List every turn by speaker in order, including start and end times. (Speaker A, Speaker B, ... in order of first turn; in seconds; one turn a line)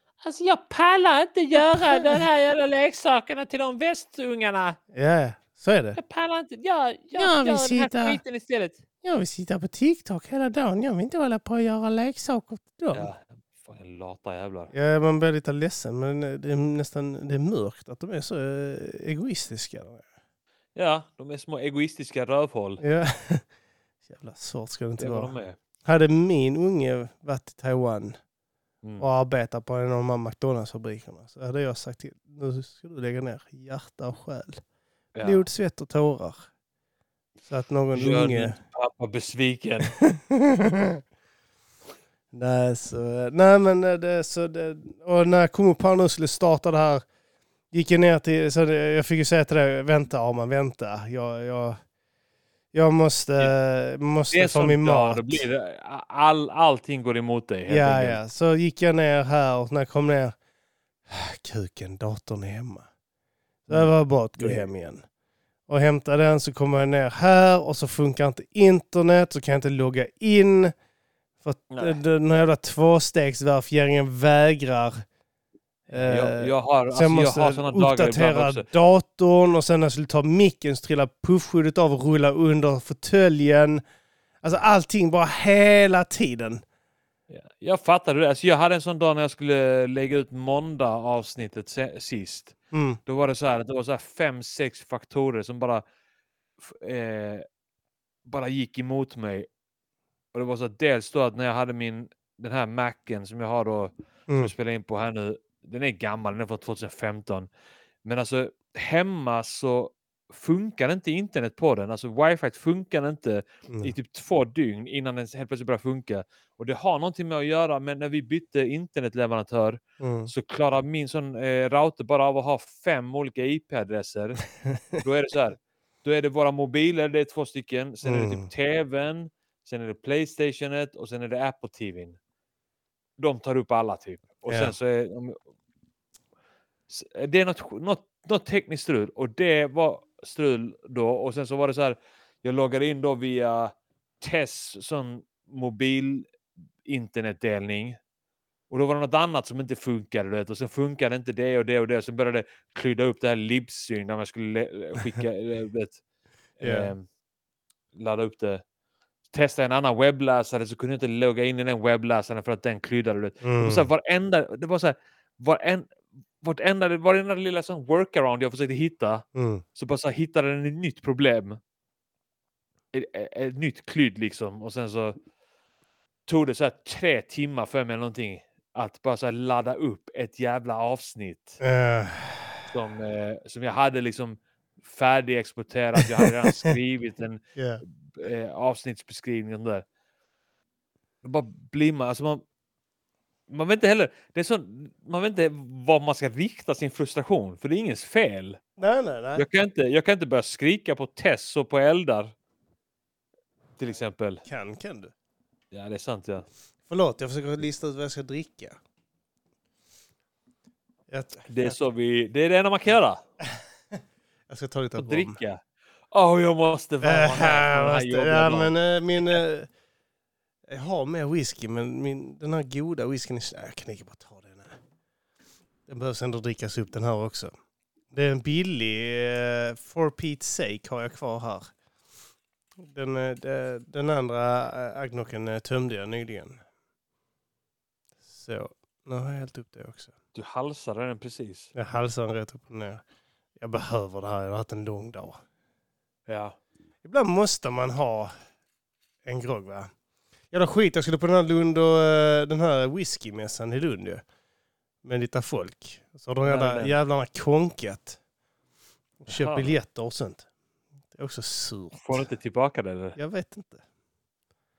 Speaker A: 0.2-4.8
Speaker B: 1.6-2.2
Speaker B: 4.9-6.0
Speaker A: 6.0-8.8
Speaker B: 7.2-8.2
Speaker B: 9.0-13.1
Speaker A: 12.9-14.7
Speaker B: 14.7-20.0
Speaker A: 20.7-22.8
Speaker B: 22.8-23.4
Speaker B: 24.1-28.2
Speaker A: 25.0-25.6
Speaker B: 29.0-34.6
Speaker A: 35.1-35.5
Speaker B: 35.2-36.5
Speaker B: 37.5-38.6
Speaker A: 37.9-39.9
Speaker B: 40.0-41.0
Speaker B: 42.3-47.0
Speaker B: 47.7-51.8
Speaker B: 52.7-55.5
Speaker A: 54.3-58.2
Speaker B: 57.7-60.4
Speaker B: 61.1-62.9
Speaker B: 63.7-65.0
Speaker A: 63.7-64.7
Speaker B: 65.7-70.7
Speaker B: 71.4-75.0
Speaker A: 71.7-72.0
Speaker B: 75.9-83.8
Speaker A: 76.0-78.7
Speaker B: 84.4-86.6
Speaker A: 87.3-95.8
Speaker B: 92.7-93.0
Speaker A: 96.6-97.5
Speaker A: 98.2-99.5
Speaker A: 100.3-107.5
Speaker A: 108.0-124.5
Speaker B: 120.0-120.3
Speaker B: 124.7-125.0
Speaker A: 125.0-132.2
Speaker B: 128.0-128.5
Speaker A: 133.2-135.4
Speaker B: 134.5-134.7
Speaker A: 136.9-146.3
Speaker A: 146.8-148.0
Speaker A: 148.7-156.0
Speaker A: 156.6-157.0
Speaker B: 156.6-156.9
Speaker A: 157.9-158.6
Speaker A: 159.3-165.9
Speaker B: 163.4-163.9
Speaker A: 166.4-169.2
Speaker B: 169.3-169.6
Speaker A: 169.8-171.6
Speaker A: 172.9-175.2
Speaker A: 176.2-181.6
Speaker B: 181.6-182.7
Speaker A: 182.7-187.4
Speaker B: 186.0-186.8
Speaker B: 187.6-187.8
Speaker A: 188.1-189.8
Speaker A: 191.2-192.4
Speaker A: 193.5-198.6
Speaker B: 198.8-199.4
Speaker A: 199.3-202.3
Speaker A: 203.8-204.4
Speaker B: 204.4-205.1
Speaker A: 205.7-206.4
Speaker B: 206.9-208.8
Speaker B: 211.1-211.8
Speaker A: 211.5-213.2
Speaker B: 214.5-215.4
Speaker A: 215.0-215.6
Speaker A: 216.1-218.7
Speaker B: 217.0-219.7
Speaker B: 220.7-224.8
Speaker B: 225.9-227.5
Speaker B: 228.1-231.7
Speaker B: 232.8-236.6
Speaker B: 238.3-240.1
Speaker A: 240.3-241.7
Speaker B: 241.7-243.0
Speaker B: 243.6-245.4
Speaker A: 246.3-246.6
Speaker B: 247.0-248.3
Speaker B: 249.2-249.9
Speaker B: 250.5-254.2
Speaker B: 255.0-258.2
Speaker A: 256.4-256.9
Speaker B: 259.2-260.5
Speaker A: 259.3-259.8
Speaker B: 261.1-262.2
Speaker A: 261.9-263.1
Speaker B: 263.1-263.8